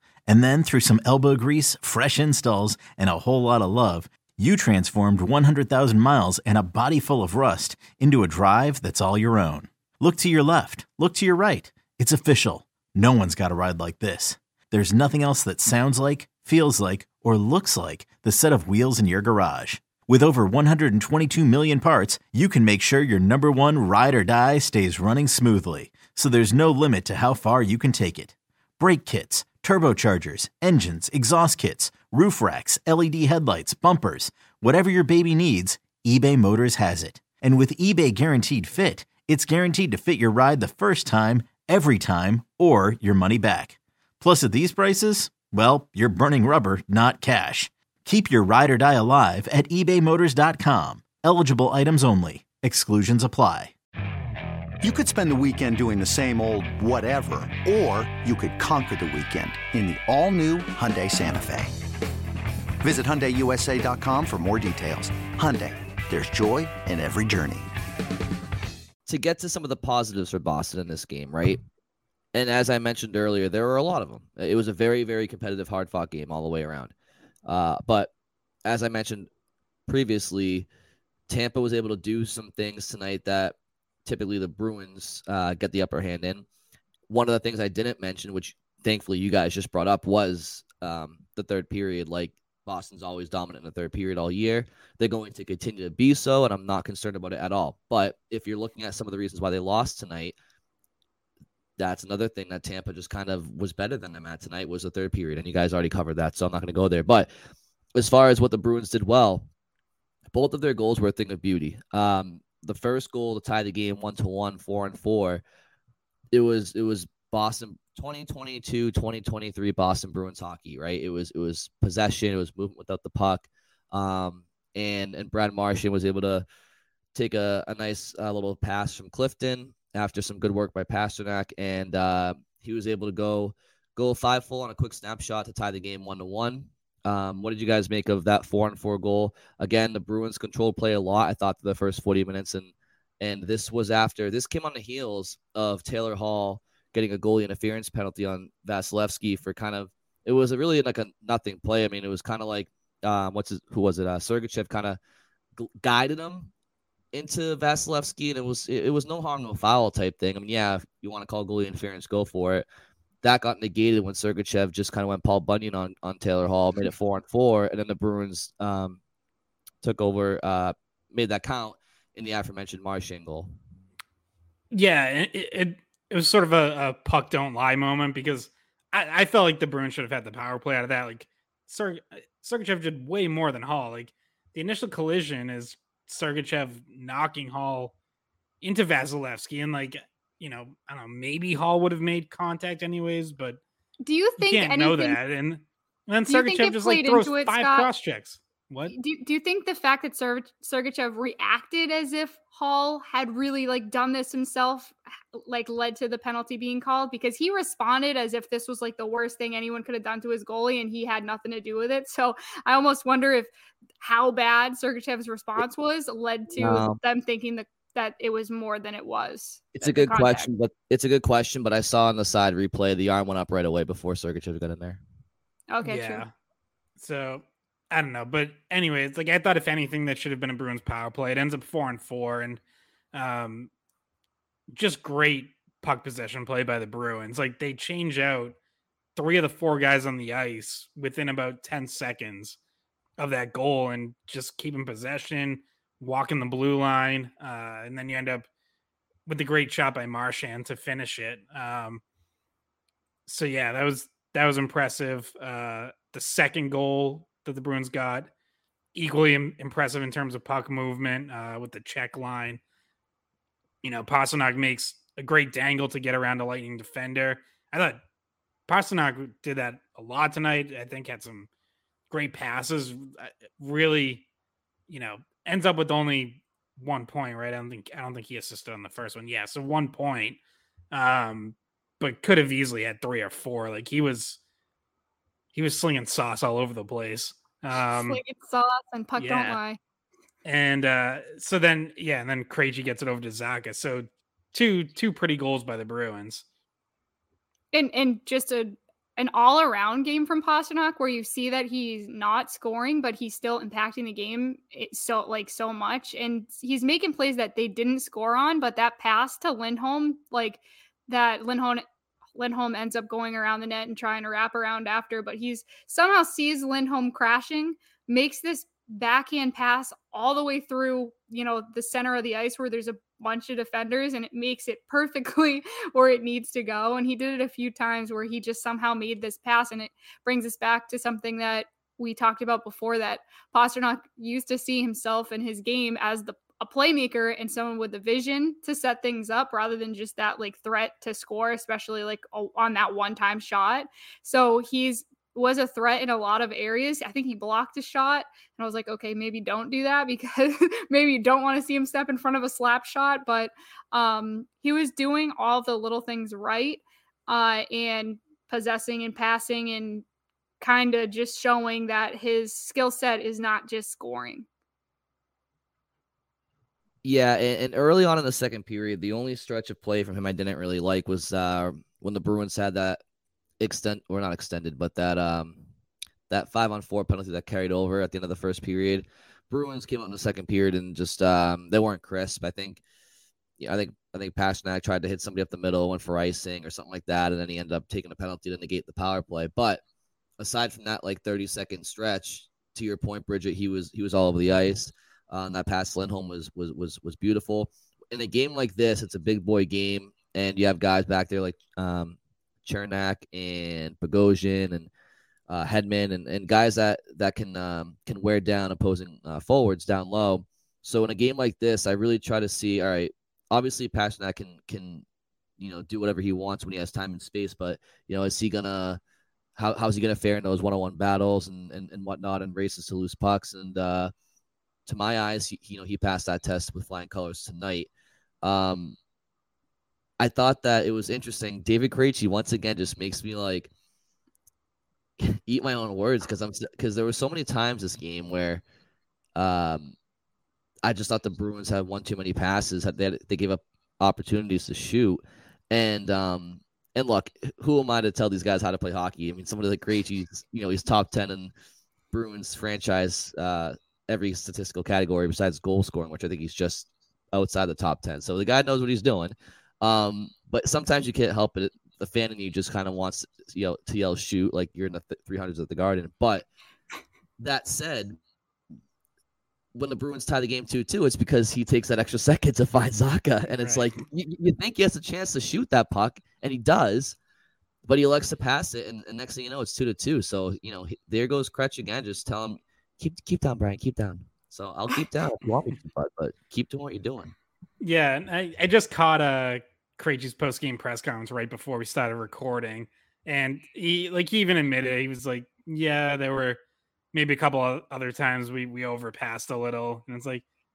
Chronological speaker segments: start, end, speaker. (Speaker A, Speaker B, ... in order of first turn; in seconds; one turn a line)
Speaker A: 0.3-53.7
Speaker B: 54.8-61.7
Speaker B: 62.8-67.7
Speaker C: 69.1-71.6
Speaker C: 72.3-76.9
Speaker C: 77.5-78.1
Speaker C: 78.7-79.2
Speaker C: 79.9-80.7
Speaker C: 81.3-83.5
Speaker C: 84.1-86.4
Speaker C: 87.1-100.3
Speaker D: 90.7-91.4
Speaker C: 101.8-107.3
Speaker C: 108.0-109.4
Speaker C: 110.3-115.4
Speaker C: 116.3-123.3
Speaker D: 117.0-118.0
Speaker C: 123.9-126.4
Speaker C: 127.2-142.6
Speaker D: 129.7-129.9
Speaker D: 132.4-132.7
Speaker C: 143.2-149.8
Speaker C: 150.3-155.0
Speaker C: 155.6-156.5
Speaker C: 157.1-162.6
Speaker C: 163.2-168.9
Speaker D: 166.2-167.4
Speaker D: 169.8-170.2
Speaker C: 169.8-171.7
Speaker D: 171.2-171.7
Speaker C: 172.2-173.4
Speaker E: 174.7-187.9
Speaker E: 188.6-193.6
Speaker F: 194.0-195.2
Speaker E: 194.4-198.9
Speaker F: 196.3-197.9
Speaker F: 198.9-220.5
Speaker D: 216.6-217.0
Speaker D: 219.8-221.2
Speaker C: 221.1-224.9
Speaker D: 221.8-225.0
Speaker F: 225.7-226.2
Speaker E: 225.8-226.3
Speaker E: 227.0-232.6
Speaker E: 233.1-233.7
Speaker E: 234.7-238.6
Speaker E: 239.2-242.6
Speaker E: 243.2-248.4
Speaker E: 249.3-252.0
Speaker E: 253.3-258.3
Speaker E: 258.9-262.6
Speaker E: 263.8-268.0
Speaker E: 268.7-271.5
Speaker E: 272.1-274.2
Speaker E: 274.9-280.4
Speaker E: 280.9-284.4
Speaker E: 285.5-288.2
Speaker F: 287.9-289.8
Speaker E: 289.2-289.6
Speaker E: 290.4-296.4
Speaker F: 297.7-311.8
Speaker F: 312.4-360.0
Speaker F: 360.6-364.4
Speaker D: 367.1-373.0
Speaker C: 368.2-369.1
Speaker C: 370.3-371.6
Speaker C: 372.2-372.9
Speaker D: 373.6-375.6
Speaker C: 373.8-374.6
Speaker D: 376.3-379.0
Speaker C: 376.5-379.0
Speaker D: 379.5-382.8
Speaker C: 379.6-382.6
Speaker D: 383.6-389.8
Speaker C: 384.3-385.5
Speaker C: 386.4-388.1
Speaker C: 388.9-389.7
Speaker D: 390.4-402.1
Speaker C: 390.6-392.0
Speaker C: 392.9-397.5
Speaker C: 398.2-399.9
Speaker C: 400.6-401.4
Speaker D: 402.7-404.9
Speaker C: 402.8-404.7
Speaker D: 405.5-406.6
Speaker C: 405.5-408.8
Speaker D: 407.1-415.0
Speaker C: 411.0-412.9
Speaker C: 413.6-414.7
Speaker D: 415.6-418.7
Speaker C: 415.9-418.9
Speaker D: 419.6-424.1
Speaker C: 419.9-421.0
Speaker C: 422.1-422.9
Speaker D: 424.9-427.9
Speaker C: 425.1-425.4
Speaker D: 428.4-428.9
Speaker D: 430.2-433.7
Speaker C: 431.3-431.7
Speaker D: 435.5-438.6
Speaker C: 437.9-438.2
Speaker D: 439.4-439.9
Speaker D: 440.9-445.2
Speaker D: 445.7-451.5
Speaker C: 448.0-449.4
Speaker D: 452.1-466.4
Speaker C: 462.4-463.0
Speaker D: 467.4-468.0
Speaker D: 469.8-477.1
Speaker E: 473.5-474.0
Speaker C: 473.6-473.9
Speaker C: 474.7-476.0
Speaker C: 476.6-477.0
Speaker D: 477.9-487.3
Speaker C: 478.1-478.7
Speaker C: 481.4-482.3
Speaker E: 487.8-496.6
Speaker E: 497.1-500.4